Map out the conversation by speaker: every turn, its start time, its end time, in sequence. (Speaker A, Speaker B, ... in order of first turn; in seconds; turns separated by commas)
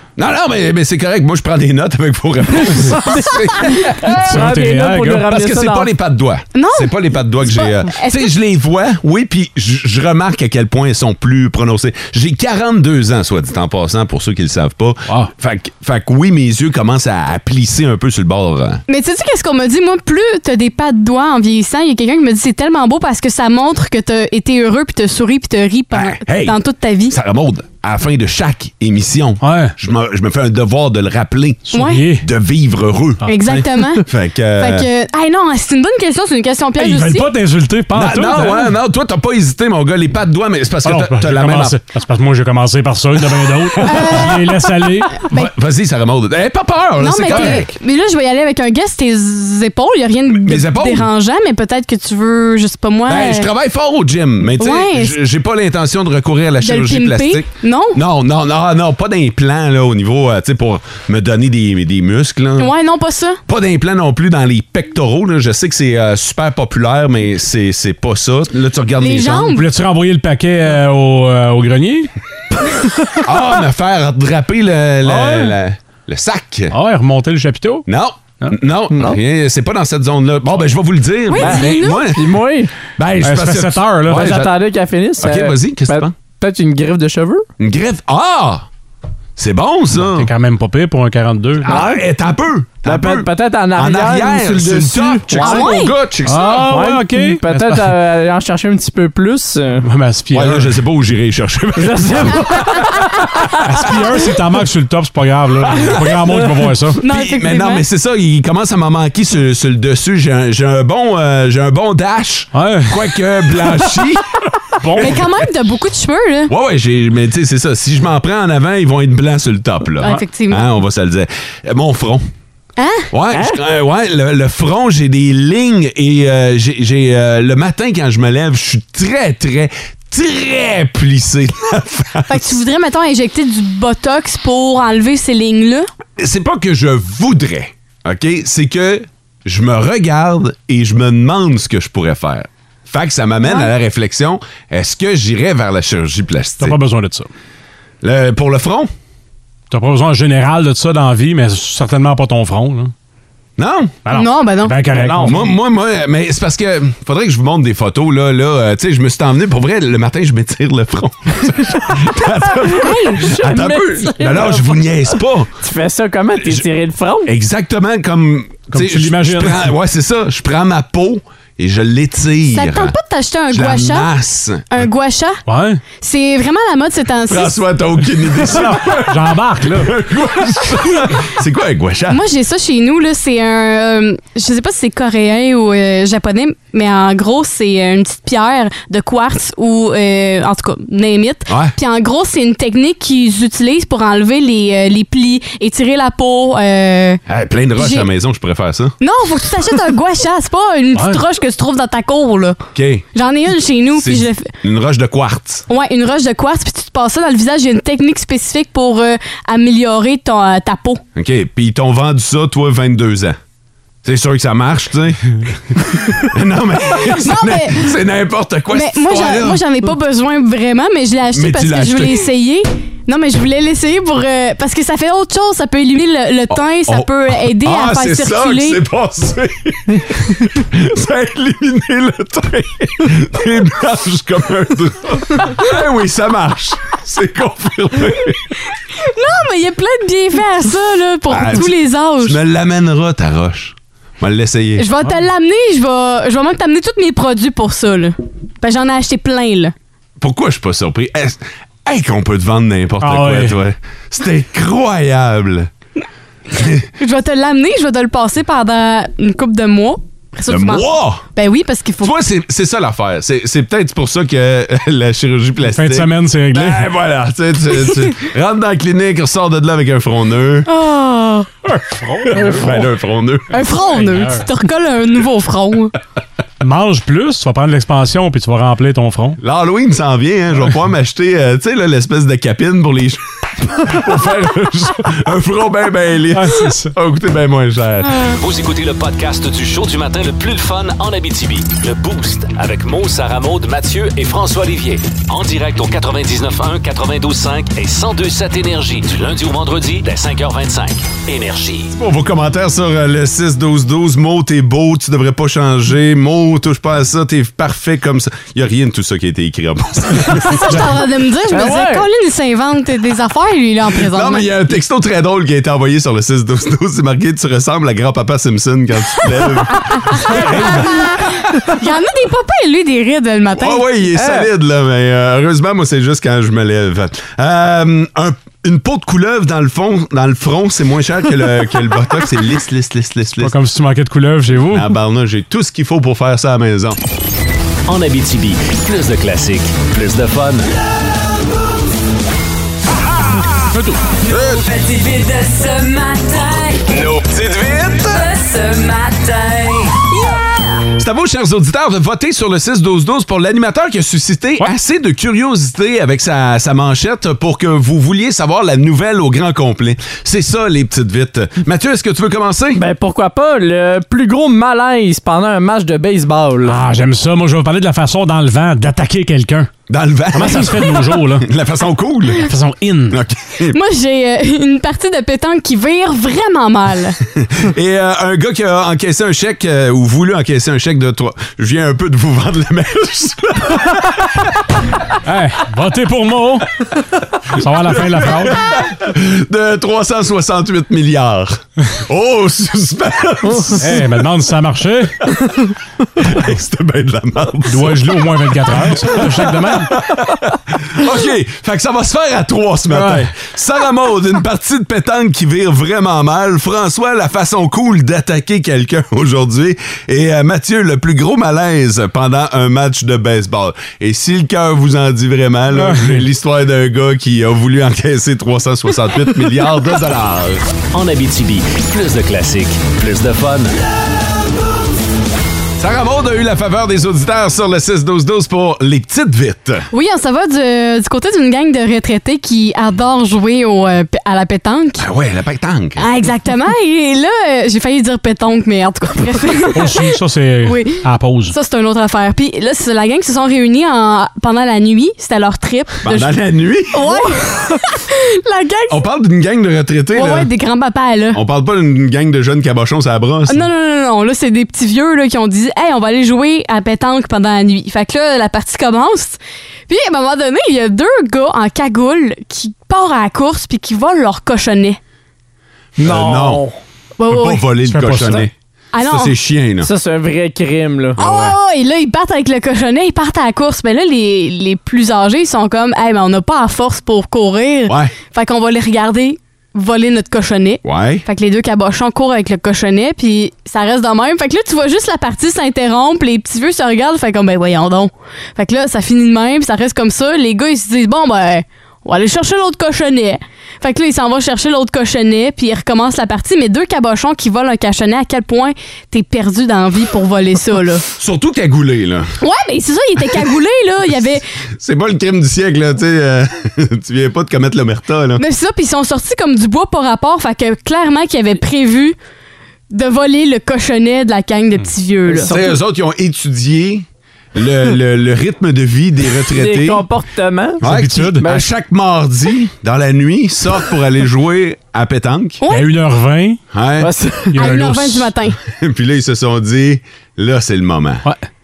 Speaker A: 0.2-4.4, Speaker B: 3.9-5.9, Speaker C: 4.1-5.2, Speaker A: 5.2-18.8, Speaker D: 6.5-8.3, Speaker D: 18.9-27.2, Speaker A: 25.9-34.9, Speaker C: 29.4-29.7, Speaker C: 31.7-32.3, Speaker D: 31.7-32.0, Speaker D: 33.2-34.1, Speaker D: 34.6-37.3, Speaker C: 36.8-38.7, Speaker A: 37.9-41.8, Speaker C: 40.8-45.2, Speaker A: 43.3-44.3, Speaker D: 43.9-44.4, Speaker D: 45.2-45.5, Speaker A: 45.2-47.7, Speaker D: 47.0-53.5, Speaker C: 47.3-47.6, Speaker A: 50.3-51.1, Speaker A: 53.1-62.7, Speaker D: 54.5-55.2, Speaker D: 56.6-58.0, Speaker D: 62.6-63.4, Speaker A: 63.5-69.6, Speaker D: 69.0-69.6, Speaker C: 69.5-72.1, Speaker A: 73.2-76.8, Speaker C: 75.1-75.5, Speaker C: 76.7-77.9, Speaker A: 77.9-82.4, Speaker B: 78.9-79.2, Speaker D: 81.3-82.0, Speaker B: 81.4-82.7, Speaker A: 83.0-84.5, Speaker C: 83.2-84.4, Speaker B: 84.1-87.5, Speaker A: 85.2-86.1, Speaker A: 87.6-88.7, Speaker A: 89.4-90.3, Speaker C: 90.0-91.7, Speaker A: 91.6-96.7, Speaker B: 91.7-92.0, Speaker B: 92.8-95.7, Speaker D: 95.4-96.0, Speaker C: 96.3-97.9, Speaker B: 96.4-99.9, Speaker C: 99.8-100.8, Speaker A: 100.3-103.3, Speaker B: 101.8-103.1, Speaker C: 103.6-107.0, Speaker A: 105.7-106.4, Speaker A: 107.0-115.3, Speaker D: 107.0-107.8, Speaker C: 112.5-113.1, Speaker C: 113.6-113.9, Speaker C: 114.8-115.2, Speaker D: 115.0-116.5, Speaker A: 116.5-122.2, Speaker D: 120.0-120.7, Speaker D: 122.8-123.1, Speaker A: 123.1-132.6, Speaker B: 123.3-123.6, Speaker D: 132.3-135.9, Speaker A: 136.2-146.8, Speaker D: 143.4-143.7, Speaker C: 146.6-147.3, Speaker A: 148.0-148.9, Speaker C: 149.7-152.9, Speaker A: 153.6-154.0, Speaker C: 154.1-155.5, Speaker D: 154.1-154.8, Speaker A: 154.9-165.5, Speaker B: 162.9-164.8, Speaker B: 165.6-167.3, Speaker A: 167.2-172.9, Speaker C: 168.7-169.7, Speaker D: 172.5-174.1, Speaker A: 173.5-174.8, Speaker D: 174.7-175.4, Speaker C: 175.5-175.8, Speaker D: 176.0-177.6, Speaker A: 177.3-182.2, Speaker C: 178.6-179.9, Speaker D: 182.1-197.2, Speaker A: 191.5-191.8, Speaker A: 197.3-199.0, Speaker D: 197.8-198.1, Speaker D: 199.0-202.6, Speaker C: 200.9-201.2, Speaker A: 202.8-203.1, Speaker D: 203.1-204.5, Speaker A: 203.9-205.7, Speaker D: 205.7-211.0, Speaker A: 211.2-213.4, Speaker A: 214.0-219.6, Speaker D: 216.9-217.9, Speaker D: 218.7-228.8, Speaker A: 221.3-222.3, Speaker A: 226.5-238.5, Speaker D: 239.0-242.4, Speaker A: 241.3-244.9, Speaker D: 244.8-249.7, Speaker A: 250.2-255.7, Speaker C: 253.0-253.6, Speaker A: 256.5-256.9, Speaker D: 257.0-262.1, Speaker A: 260.5-261.2, Speaker A: 262.0-270.7, Speaker C: 265.7-266.8, Speaker D: 270.7-271.5, Speaker C: 271.7-272.7, Speaker A: 272.3-273.6, Speaker D: 273.5-275.9, Speaker C: 273.9-274.4, Speaker C: 276.6-279.4, Speaker A: 279.4-288.3, Speaker C: 286.3-286.9, Speaker E: 288.3-301.9, Speaker A: 301.9-310.8, Speaker D: 310.3-314.5, Speaker B: 311.5-312.1, Speaker A: 313.9-321.4, Speaker D: 320.1-323.9, Speaker A: 323.5-333.6, Speaker B: 324.2-324.5, Speaker C: 333.4-334.9, Speaker A: 334.6-337.0, Speaker E: 337.9-340.6, Speaker C: 343.7-344.0, Speaker F: 344.1-347.2, Speaker A: 344.3-344.6, Speaker A: 346.9-348.2, Speaker F: 347.9-350.9, Speaker A: 350.9-362.8, Speaker B: 362.8-366.8, Speaker C: 366.7-369.7, Speaker A: 369.9-372.5, Speaker C: 370.3-371.5, Speaker C: 372.4-373.2, Speaker A: 373.1-373.8, Speaker D: 373.7-377.2, Speaker A: 377.4-384.6, Speaker C: 385.2-386.8, Speaker C: 387.5-388.6, Speaker A: 387.7-394.2, Speaker B: 393.5-393.8, Speaker C: 393.8-395.3, Speaker A: 396.2-420.7, Speaker C: 397.7-399.9, Speaker C: 402.9-403.3, Speaker C: 415.7-416.2, Speaker E: 420.9-423.7, Speaker A: 425.8-429.9, Speaker D: 429.9-435.1, Speaker A: 435.0-436.1, Speaker D: 436.0-440.1, Speaker C: 439.8-441.6, Speaker D: 440.6-446.3, Speaker A: 446.0-447.3, Speaker D: 446.9-449.0, Speaker A: 448.9-450.5, Speaker D: 450.1-451.4, Speaker A: 451.3-453.7, Speaker D: 453.5-465.0, Speaker B: 466.0-466.8, Speaker A: 466.0-466.7, Speaker D: 467.2-467.7, Speaker A: 467.3-469.9, Speaker C: 467.9-468.5, Speaker D: 468.9-469.3, Speaker B: 469.8-471.2, Speaker A: 471.2-471.6, Speaker D: 471.2-501.1, Speaker A: 477.9-478.1, Speaker A: 480.8-481.2, Speaker A: 501.2-502.4, Speaker D: 502.4-504.4, Speaker A: 504.8-508.4, Speaker D: 508.4-512.1, Speaker D: 512.9-515.5, Speaker B: 515.3-515.8, Speaker A: 515.5-520.0, Speaker B: 519.5-520.8, Speaker A: 520.8-525.6, Speaker C: 520.8-521.5, Speaker B: 521.4-521.7, Speaker C: 525.7-526.6, Speaker A: 526.7-527.1, Speaker B: 527.0-527.5, Speaker C: 527.5-528.3, Speaker D: 527.6-528.6, Speaker A: 527.6-528.0, Speaker A: 528.6-531.3